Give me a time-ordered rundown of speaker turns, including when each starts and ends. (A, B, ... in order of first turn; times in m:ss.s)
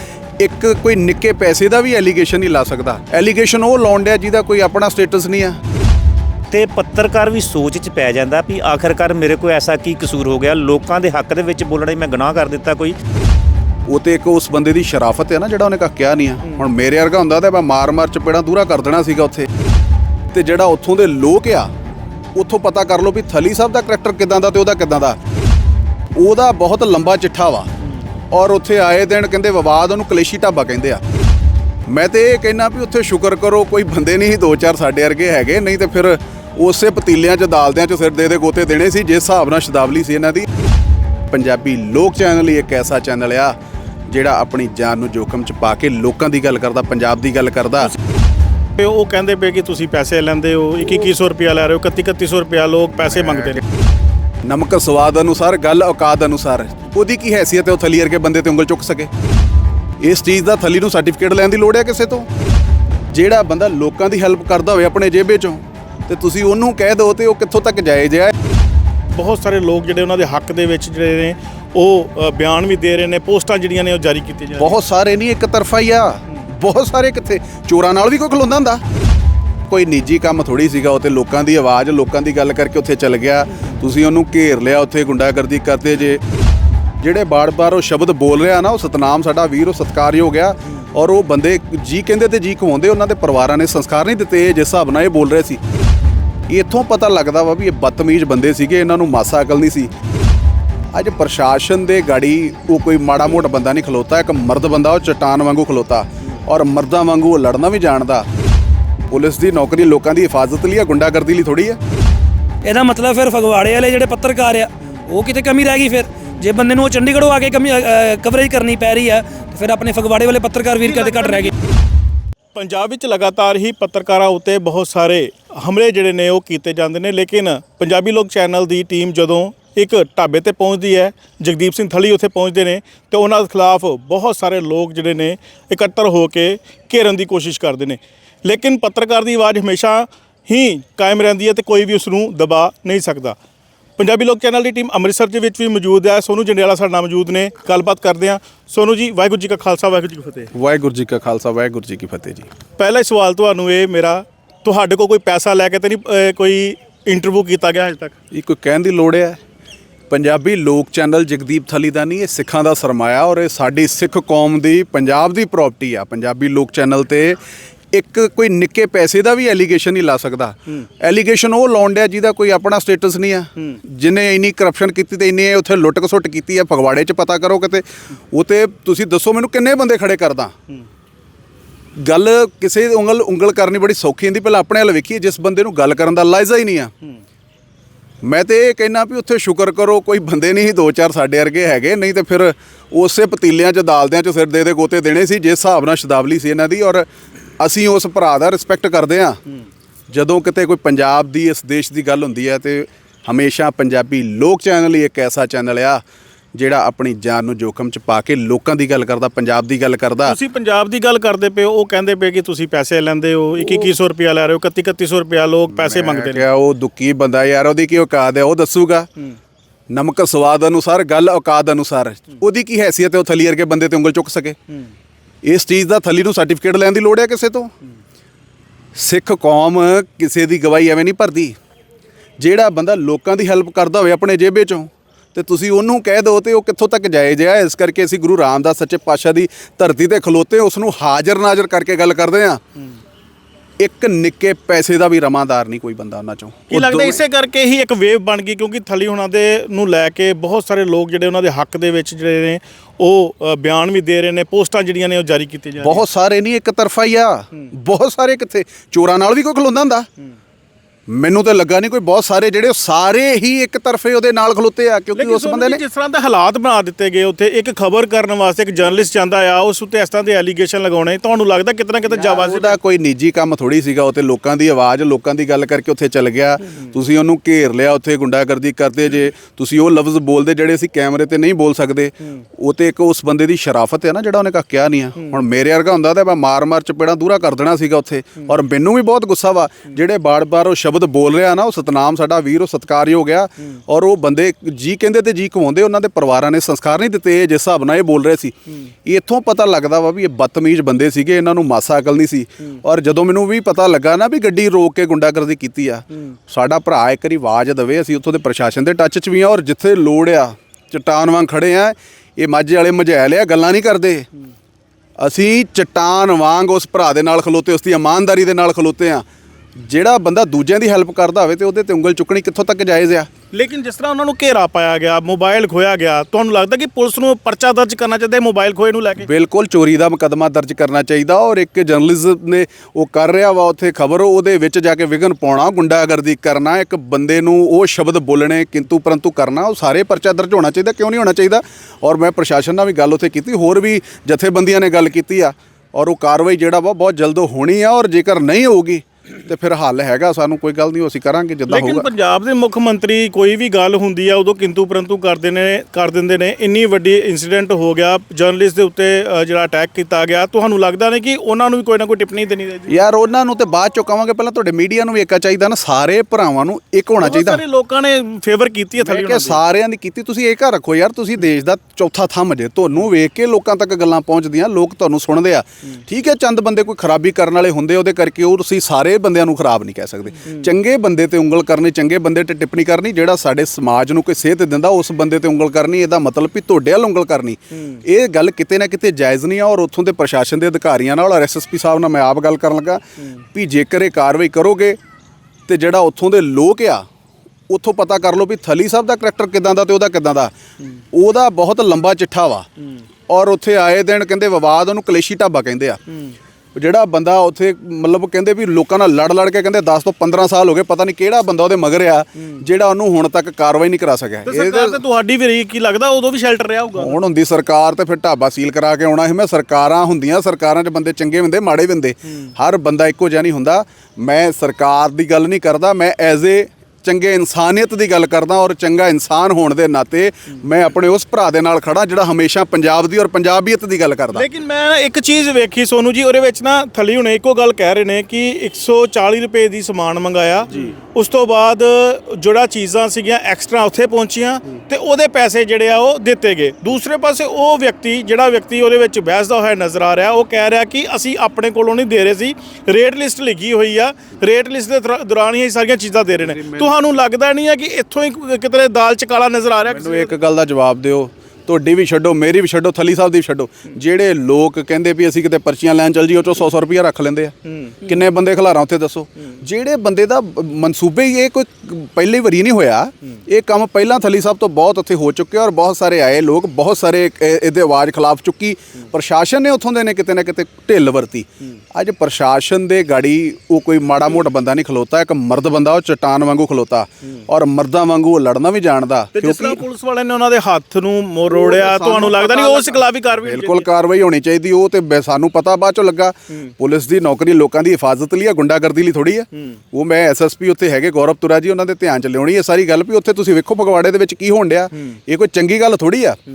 0:00.4-0:05.6 A
0:06.5-0:13.0 B
0:13.9-0:19.5 A
0:20.3-0:21.7 A
0:22.3-0:25.2 A
0:26.2-0:27.7 A
0:28.3-0:31.0 A
0:31.9-0:40.5 A
0:41.3-0:43.6 A
0:44.1-0:47.9 A
0:48.8-0:53.6 C
0:54.4-0:59.1 A
1:00.0-1:02.3 A
1:03.1-1:08.3 A
1:09.1-1:14.8 C
1:14.6-1:18.8 A
1:19.7-1:26.2 A
1:27.0-1:35.6 A
1:36.5-1:39.9 A
1:40.9-1:48.3 A
1:49.1-1:51.8 A
1:52.6-2:01.5 D
2:00.8-2:01.5 C
2:02.5-2:23.4 C
2:24.0-2:30.5 C
2:30.5-2:32.5 A
2:32.8-2:38.2 C
2:38.3-2:39.4 A
2:40.1-2:47.4 A
2:47.9-3:00.5 A
3:02.0-3:06.9 A
3:08.2-3:17.1 A
3:17.6-3:19.4 A
3:20.1-3:26.0 A
3:26.5-3:30.4 A
3:30.2-3:36.5 C
3:35.7-3:39.1 A
3:39.9-3:44.6 A
3:45.4-3:47.7 A
3:49.0-3:51.5 A
3:52.4-4:02.6 A
4:03.8-4:07.2 A
4:06.7-4:16.0 C
4:15.8-4:20.1 A
4:21.1-4:25.8 A
4:25.1-4:32.8 C
4:32.1-5:14.3 A
5:15.2-5:19.2 A
5:19.9-5:23.3 A
5:23.5-5:29.2 C
5:29.2-5:52.0 A
5:51.7-6:03.0 C
6:02.9-6:07.6 A
6:07.2-6:09.6 C
6:09.0-6:33.0 A
6:33.5-6:35.0 A
6:35.7-6:37.0 A
6:37.7-6:40.5 A
6:41.1-6:42.7 A
6:43.3-6:46.0 A
6:46.1-6:46.3 C
6:46.8-6:55.0 A
6:54.4-6:57.2 C
6:57.0-7:14.5 A
7:14.3-7:40.4 C
7:36.5-7:36.9 A
7:39.9-8:09.8 A
7:47.6-7:48.0 C
8:09.3-8:13.9 C
8:11.5-8:26.4 A